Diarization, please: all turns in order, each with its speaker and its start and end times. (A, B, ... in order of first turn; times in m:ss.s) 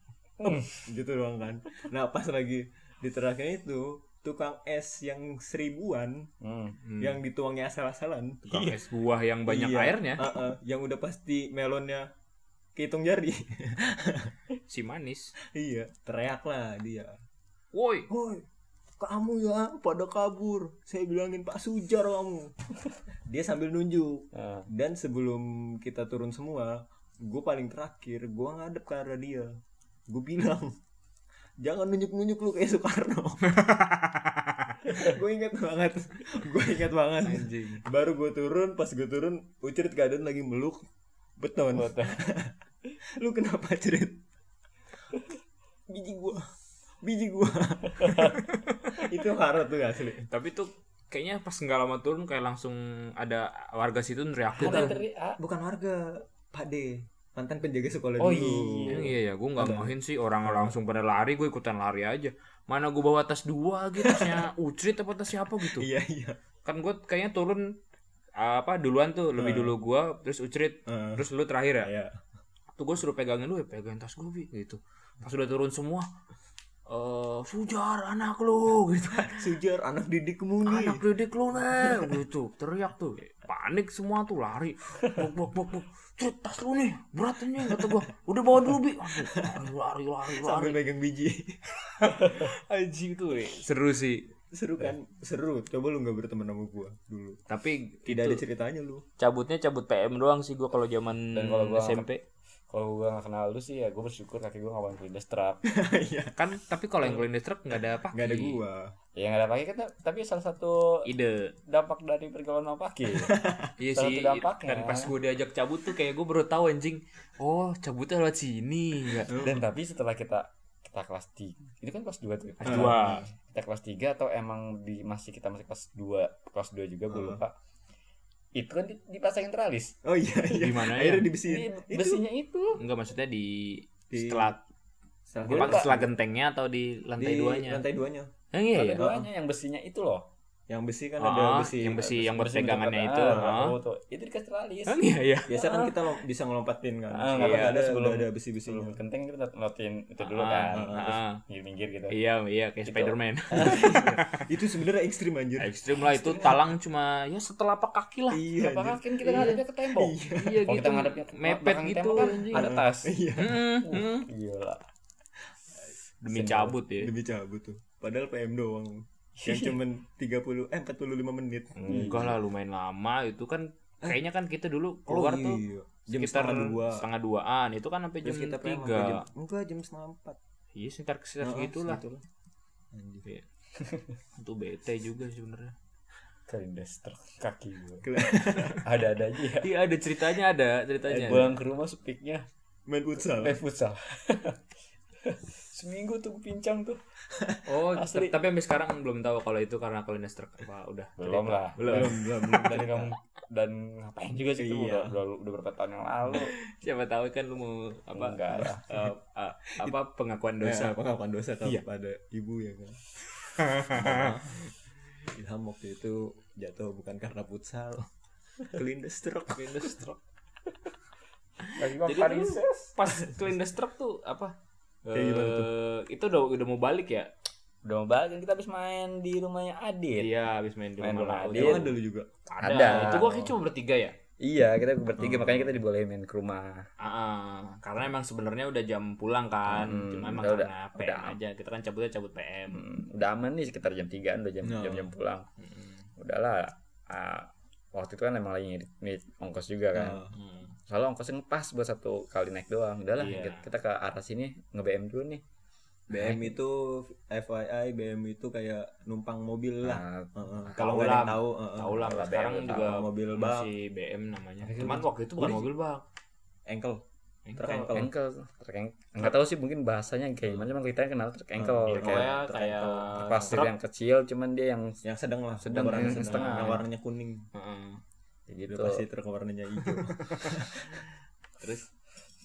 0:00.4-0:00.8 A
0:00.6-0:06.3 B
0:06.4-0:06.8 A
0:06.8-0:07.2 C
0:07.0-0:08.8 B
0:08.5-0:10.2 C
0:09.5-0:12.1 B
0:12.8-0:14.3 B
0:14.7-0:15.3 C
0:15.4-0:17.2 B
0:17.7-0:18.1 C
0:18.1-0:22.6 B
0:23.3-0:30.8 B
0:24.3-0:24.7 A
0:31.6-0:33.4 B
0:33.4-0:35.0 C
0:34.9-0:40.9 B
0:37.2-0:37.8 C
0:41.4-0:42.6 B
0:41.8-0:42.1 A
0:43.2-0:44.2 B
0:45.9-0:46.5 B
0:47.0-0:48.4 B
0:48.0-0:48.4 A
0:48.5-0:48.9 C
0:48.9-0:50.3 B
0:50.3-0:55.0 C
0:54.6-0:55.4 A
0:54.6-1:00.8 B
0:58.2-0:59.1 A
0:58.9-1:05.9 C
1:04.0-1:04.5 B
1:05.6-1:06.4 B
1:06.6-1:07.8 C
1:08.4-1:11.9 C
1:09.4-1:09.8 B
1:10.9-1:11.2 B
1:11.8-1:12.2 B
1:12.8-1:16.1 C
1:16.9-1:19.5 C
1:19.3-1:21.0 B
1:20.7-1:30.8 C
1:21.8-1:22.2 B
1:27.6-1:28.0 B
1:29.0-1:29.7 B
1:30.3-1:32.3 B
1:31.9-1:34.3 C
1:34.5-1:37.4 B
1:37.5-1:38.4 C
1:38.1-1:39.0 B
1:39.2-1:42.2 C
1:41.3-1:42.1 A
1:42.7-1:45.6 A
1:45.7-1:46.4 B
1:46.4-1:48.6 C
1:48.1-1:49.0 B
1:49.2-1:51.1 A
1:51.1-1:51.5 C
1:51.7-1:53.4 A
1:53.1-1:53.7 B
1:53.8-1:59.3 C
1:53.9-1:55.1 A
1:59.3-1:59.6 B
1:59.4-2:07.5 A
2:02.6-2:03.3 C
2:02.6-2:03.3 B
2:07.1-2:07.4 B
2:08.6-2:10.0 A
2:10.0-2:12.2 B
2:10.5-2:11.3 C
2:11.4-2:12.8 A
2:12.8-2:14.6 C
2:14.1-2:14.6 B
2:15.3-2:16.1 B
2:15.4-2:15.9 A
2:15.5-2:17.8 C
2:17.2-2:18.3 B
2:18.5-2:19.1 C
2:18.8-2:20.3 A
2:18.9-2:19.3 B
2:20.7-2:22.2 B
2:21.2-2:23.8 C
2:22.0-2:25.0 A
2:23.2-2:23.8 B
2:24.9-2:25.5 C
2:25.5-2:29.0 B
2:25.5-2:26.0 A
2:27.1-2:32.2 A
2:27.4-2:27.8 C
2:30.2-2:31.4 C
2:30.7-2:31.2 B
2:32.1-2:34.5 C
2:32.8-2:34.0 A
2:33.5-2:35.7 B
2:35.6-2:38.4 C
2:38.3-2:40.7 B
2:38.6-2:43.2 A
2:40.4-2:42.8 C
2:42.3-2:43.6 B
2:43.4-2:44.3 C
2:43.8-2:44.8 A
2:46.2-2:47.1 C
2:46.3-2:46.8 A
2:47.0-2:52.4 B
2:49.4-2:49.7 A
2:51.8-2:59.2 C
2:51.8-2:52.4 A
2:55.1-2:57.0 B
2:58.2-3:00.4 B
3:00.8-3:02.0 C
3:01.4-3:02.2 B
3:02.9-3:03.2 B
3:03.8-3:04.2 A
3:04.4-3:05.8 C
3:06.5-3:08.1 A
3:08.0-3:08.8 B
3:08.8-3:09.7 A
3:09.6-3:11.5 C
3:11.0-3:12.5 A
3:12.9-3:13.6 B
3:13.2-3:14.6 A
3:15.2-3:17.0 A
3:17.3-3:17.6 B
3:17.7-3:22.8 C
3:17.9-3:18.3 A
3:21.2-3:26.5 A
3:21.8-3:23.1 B
3:24.6-3:25.2 B
3:26.3-3:31.0 C
3:28.1-3:28.8 A
3:28.9-3:29.1 B
3:30.6-3:33.0 B
3:33.5-3:34.4 C
3:33.9-3:34.7 B
3:35.2-3:38.1 B
3:38.7-3:40.0 B
3:39.5-3:40.2 C
3:41.7-3:44.5 C
3:41.8-3:43.0 A
3:45.0-3:47.3 C
3:45.1-3:45.7 B
3:47.8-3:50.3 A
3:50.2-3:52.0 C
3:51.0-3:51.8 A
3:51.5-3:52.3 B
3:52.5-3:54.2 C
3:52.6-3:53.5 A
3:52.9-3:53.4 B
3:54.4-3:56.9 A
3:55.2-3:55.8 B
3:57.0-4:02.8 C
3:59.7-4:01.4 A
4:02.7-4:05.5 A
4:04.6-4:05.1 B
4:05.6-4:06.0 C
4:06.2-4:10.2 A
4:10.0-4:10.4 B
4:10.3-4:10.8 C
4:10.9-4:15.4 A
4:13.2-4:13.7 C
4:16.1-4:22.2 B
4:16.1-4:16.6 A
4:19.8-4:20.8 A
4:20.8-4:26.0 C
4:22.0-4:23.0 A
4:22.7-4:23.7 B
4:24.6-4:25.6 A
4:26.7-4:27.0 B
4:27.5-4:28.0 C
4:27.6-4:28.1 B
4:27.9-4:32.3 A
4:31.6-4:33.7 B
4:31.9-4:33.7 C
4:33.2-4:35.0 A
4:35.0-4:37.5 B
4:35.6-4:36.8 A
4:35.9-4:36.8 C
4:37.5-4:38.0 C
4:38.5-4:39.0 A
4:38.7-4:41.1 B